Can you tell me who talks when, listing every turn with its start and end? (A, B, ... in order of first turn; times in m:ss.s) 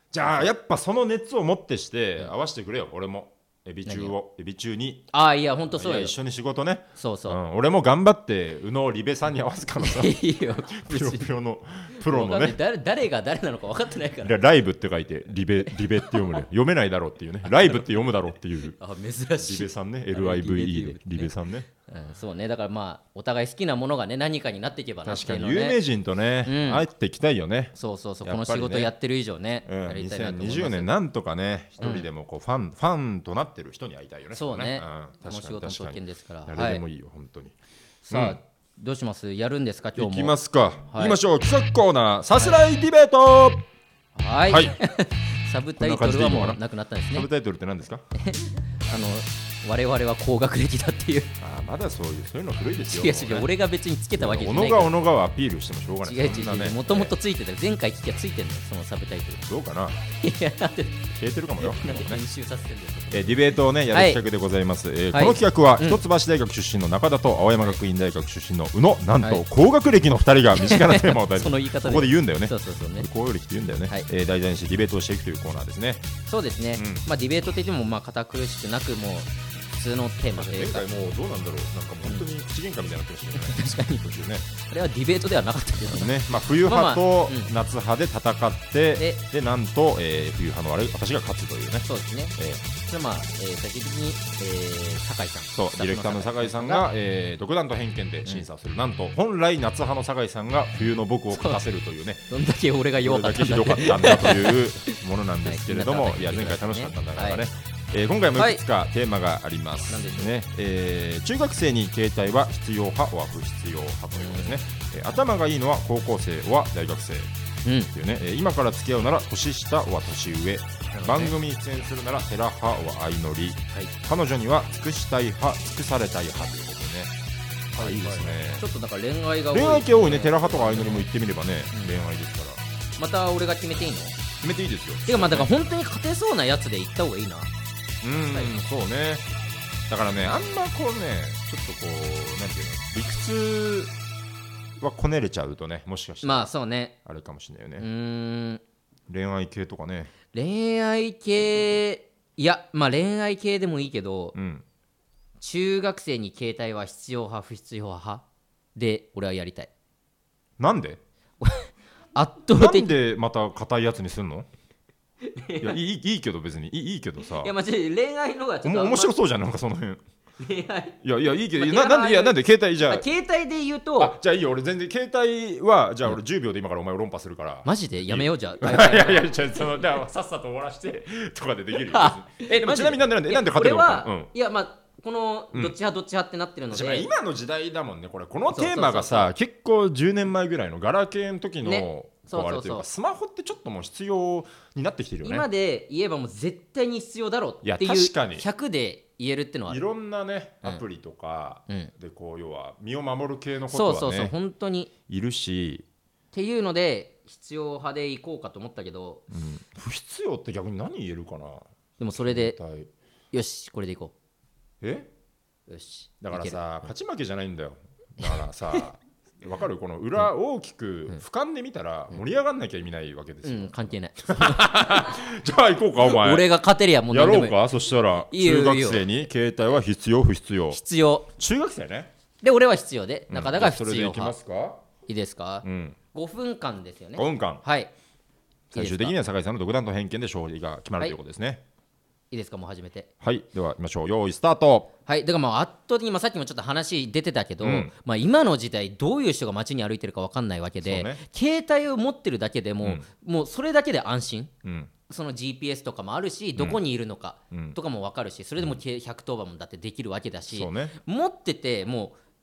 0:00.1-0:05.1 A
0:03.9-0:04.1 B
0:05.1-0:06.2 B
0:05.7-0:10.2 A
0:07.0-0:07.4 B
0:09.8-0:11.3 B
0:10.7-0:12.6 A
0:12.0-0:14.4 B
0:14.2-0:18.8 A
0:16.0-0:16.4 B
0:17.5-0:17.8 B
0:18.8-0:21.3 B
0:19.4-0:21.7 A
0:21.9-0:25.8 B
0:25.0-0:28.9 A
0:26.4-0:26.8 B
0:27.8-0:30.9 B
0:29.7-0:37.5 A
0:31.8-0:32.1 B
0:34.3-0:36.8 B
0:38.0-0:40.3 B
0:38.1-0:38.4 A
0:40.0-0:43.6 A
0:40.9-0:41.2 B
0:44.2-0:47.3 B
0:44.5-0:44.8 A
0:45.8-0:46.6 A
0:47.1-0:48.0 A
0:48.2-0:51.3 B
0:51.4-0:53.5 A
0:52.9-0:54.9 B
0:54.2-0:57.1 A
0:56.0-0:59.5 B
0:59.5-1:00.0 A
1:00.2-1:03.4 B
1:01.1-1:02.2 A
1:03.1-1:16.1 A
1:03.9-1:04.2 B
1:05.1-1:06.0 B
1:10.6-1:13.1 B
1:16.3-1:20.8 B
1:16.8-1:17.0 A
1:20.4-1:24.4 A
1:23.4-1:27.5 B
1:25.9-1:32.6 A
1:31.8-1:36.9 B
1:35.5-1:42.3 A
1:41.3-1:41.6 B
1:42.3-1:47.4 B
1:43.0-1:57.3 A
1:49.9-1:50.3 B
1:54.2-1:54.6 B
1:57.6-1:57.9 B
1:57.9-2:07.1 A
2:01.0-2:01.4 B
2:07.7-2:08.7 A
2:07.8-2:11.1 B
2:09.5-2:12.6 A
2:13.0-2:14.2 B
2:14.4-2:15.5 A
2:15.1-2:17.5 B
2:18.0-2:19.3 A
2:19.9-2:23.9 A
2:24.8-2:26.5 A
2:26.2-2:27.0 B
2:27.0-2:27.9 A
2:27.8-2:28.6 B
2:29.1-2:30.1 A
2:30.3-2:34.4 B
2:34.4-2:34.6 A
2:35.4-2:38.2 B
2:38.8-2:39.7 B
2:40.6-2:41.0 A
2:41.4-2:42.9 B
2:42.6-2:44.5 A
2:45.2-2:45.8 B
2:45.6-2:47.5 A
2:47.4-2:49.1 B
2:48.6-2:50.0 A
2:50.4-2:51.0 B
2:51.0-2:53.1 A
2:51.6-2:54.2 B
2:54.0-3:04.3 A
2:57.6-2:59.6 B
3:01.8-3:07.1 B
3:06.7-3:15.5 A
3:08.5-3:09.3 B
3:11.6-3:12.8 B
3:15.2-3:19.8 B
3:17.6-3:18.4 A
3:19.7-3:24.3 A
3:23.7-3:24.9 B
3:25.1-3:25.9 A
3:26.3-3:29.2 B
3:29.3-3:31.6 A
3:32.0-3:32.6 B
3:32.2-3:32.9 A
3:33.3-3:34.1 B
3:34.8-3:35.1 A
3:35.7-3:36.6 B
3:36.2-3:46.5 A
3:38.2-3:38.8 B
3:43.4-3:45.1 B
3:46.0-3:47.6 B
3:47.1-3:50.8 A
3:48.3-3:49.1 B
3:50.7-3:51.3 B
3:51.4-3:52.1 A
3:52.4-3:54.4 B
3:53.3-3:54.8 A
3:55.1-3:57.9 B
3:55.6-3:56.0 A
3:57.2-3:57.6 A
3:58.7-4:01.6 A
3:58.8-3:59.2 B
4:02.3-4:03.1 B
4:03.2-4:04.9 A
4:05.1-4:14.5 B
4:07.6-4:07.9 A
4:10.8-4:11.2 A
4:14.6-4:14.9 A
4:15.1-4:22.2 B
4:17.5-4:17.8 A
4:20.5-4:21.0 A